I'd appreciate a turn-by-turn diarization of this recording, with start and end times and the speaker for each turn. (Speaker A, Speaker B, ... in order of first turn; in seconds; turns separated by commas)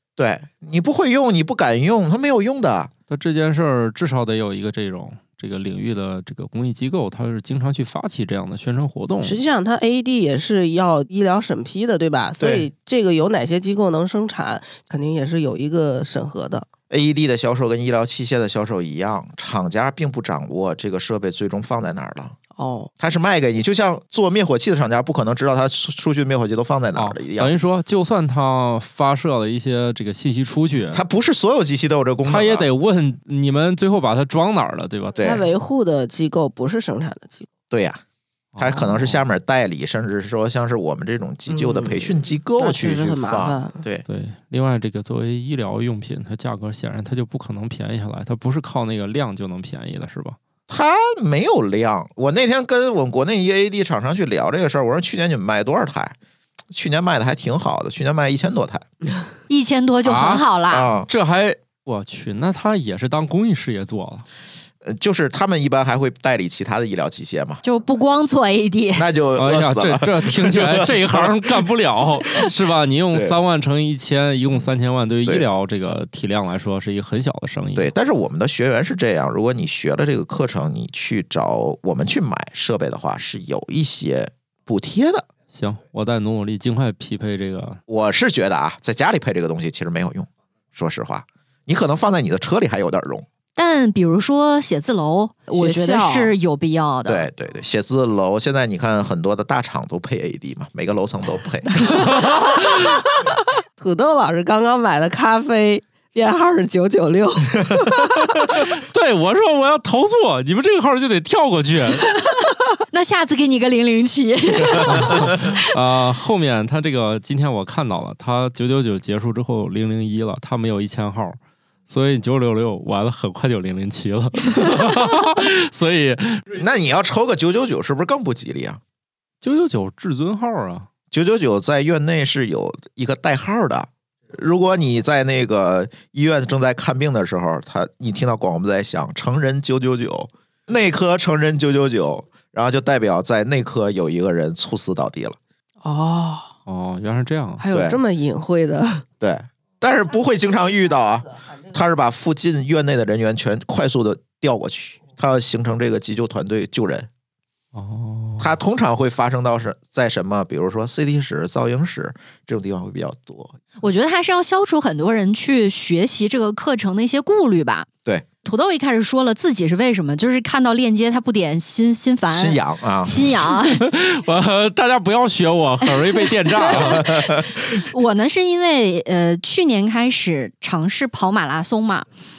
Speaker A: 0.2-2.9, Speaker B: 3.1-9.4, Speaker C: 9.2-16.7, Speaker A: 12.4-12.7, Speaker A: 16.9-22.4, Speaker C: 22.6-22.9, Speaker A: 23.0-27.6, Speaker B: 26.9-31.0, Speaker A: 30.9-32.7, Speaker B: 32.2-35.2, Speaker A: 35.2-35.5, Speaker C: 35.2-37.5, Speaker A: 37.7-38.0, Speaker B: 38.5-39.2, Speaker A: 38.6-44.0, Speaker C: 41.5-43.8, Speaker B: 44.1-50.4, Speaker A: 50.7-56.1, Speaker A: 56.7-58.9, Speaker D: 59.5-60.9, Speaker B: 60.0-60.5, Speaker A: 60.7-61.1, Speaker B: 61.1-64.2, Speaker A: 64.8-67.6, Speaker D: 67.6-69.1, Speaker A: 69.0-71.7, Speaker B: 69.4-77.9, Speaker A: 73.1-73.4, Speaker A: 77.8-85.3, Speaker B: 85.5-87.8, Speaker A: 87.9-93.2, Speaker D: 93.6-97.3, Speaker C: 95.5-96.3, Speaker A: 97.0-102.1, Speaker C: 101.8-108.4, Speaker B: 102.2-102.8, Speaker B: 108.5-112.1, Speaker D: 112.1-115.7, Speaker B: 114.8-121.4, Speaker B: 121.9-126.5, Speaker A: 126.5-128.8, Speaker B: 129.4-130.9, Speaker A: 131.1-145.4, Speaker C: 145.8-146.5, Speaker B: 146.7-147.6, Speaker C: 147.6-149.0, Speaker A: 147.7-148.0, Speaker A: 149.2-157.1, Speaker B: 157.7-158.5, Speaker A: 158.4-163.6, Speaker D: 163.8-167.9, Speaker D: 168.4-173.8, Speaker A: 172.3-173.3, Speaker B: 173.6-177.2, Speaker D: 175.9-182.1, Speaker A: 176.7-177.8